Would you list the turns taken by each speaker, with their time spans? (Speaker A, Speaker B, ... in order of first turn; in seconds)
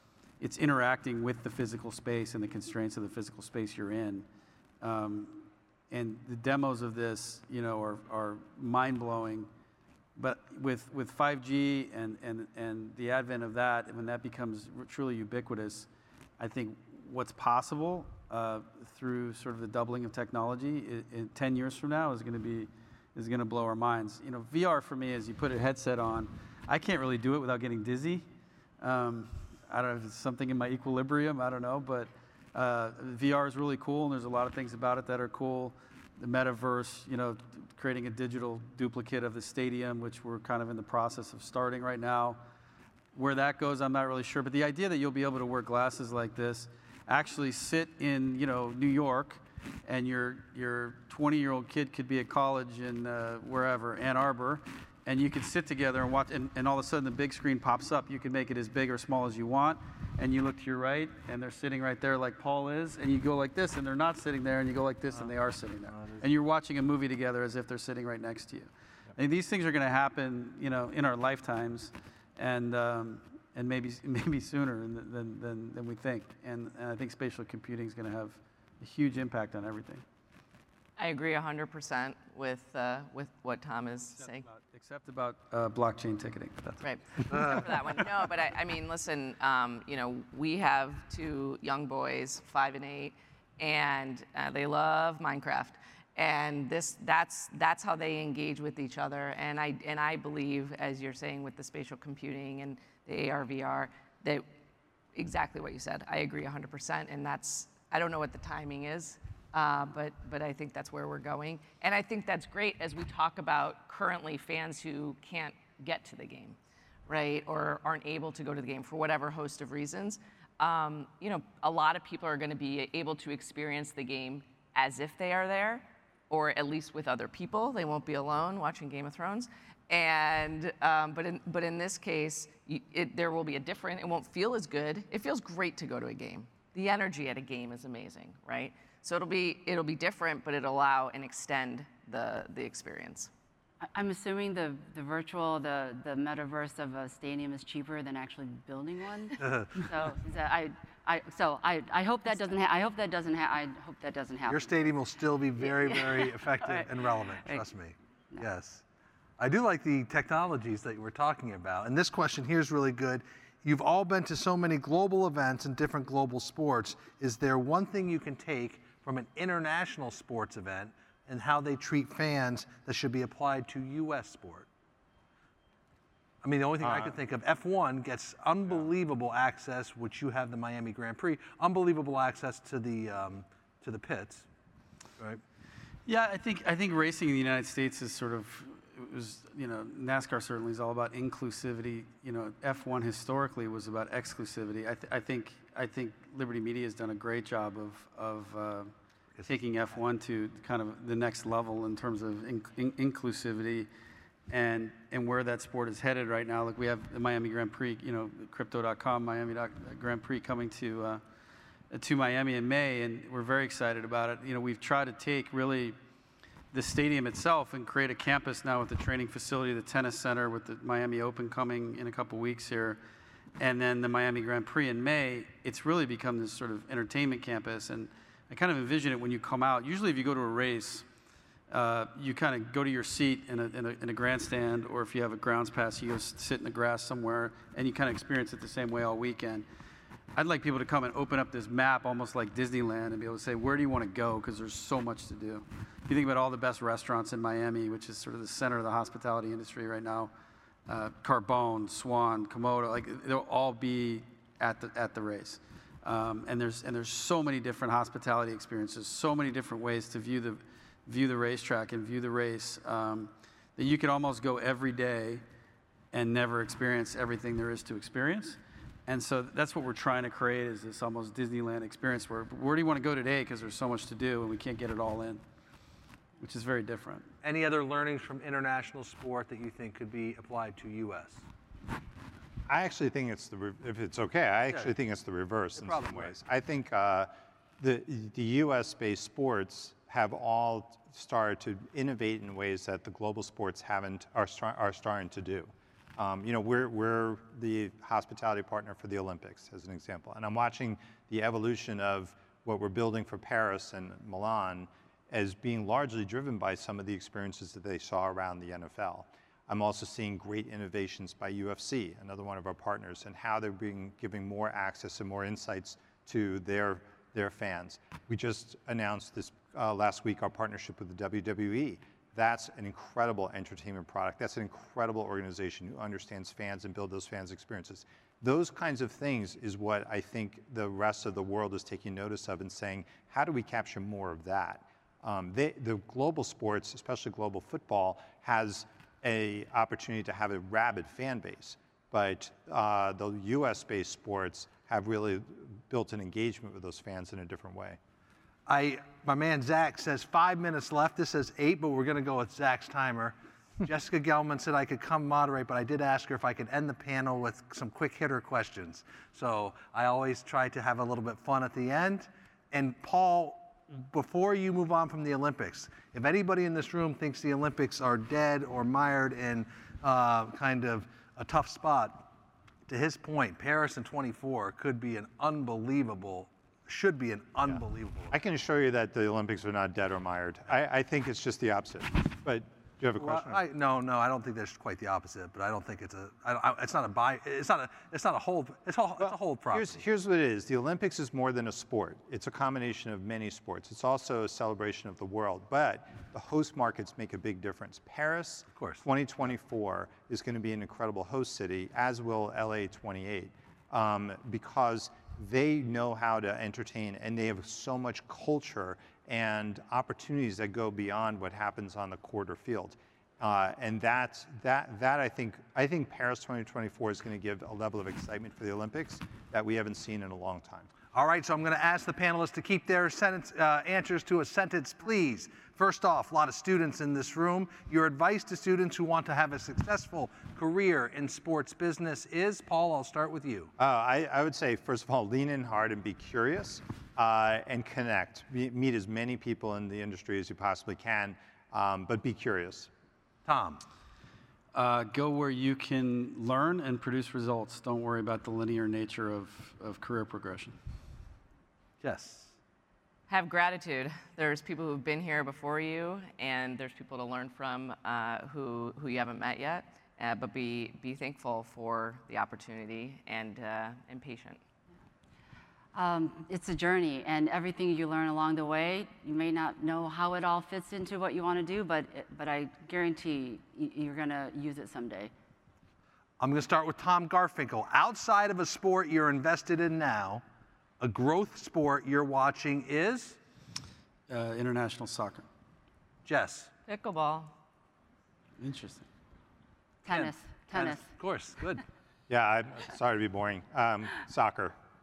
Speaker A: 0.4-4.3, 4.8-9.5, 10.2-28.2, 28.8-42.4, 43.1-80.0, 84.2-87.7, 186.1-198.9, 199.5-203.9, 204.5-211.2, 211.9-216.0, 216.7-223.0, 223.6-231.1, 231.7-239.7, 240.3-250.3, 250.9-265.4, 266.1-275.4, 276.4-277.3, 444.8-450.8, 484.3-485.5, 488.6-489.1
Speaker B: 81.0-84.5, 86.8-104.5, 105.2-143.3, 453.3-464.6, 486.9-487.5
Speaker C: 87.3-87.6, 149.4-149.9, 154.5-158.8, 159.4-174.7, 176.4-184.5, 277.4-281.4, 285.8-286.3, 348.7-372.3, 372.9-378.4, 383.2-390.0, 398.7-399.0, 421.1-433.7, 443.5-443.8, 452.0-452.6, 476.4-480.4, 481.0-483.4, 486.2-486.7, 490.1-491.8
Speaker D: 143.9-154.9, 155.6-157.6, 465.9-475.3, 490.1-491.1
Speaker E: 176.8-177.2, 282.7-348.0, 378.3-383.6, 389.2-420.9, 433.8-442.9, 492.3-494.8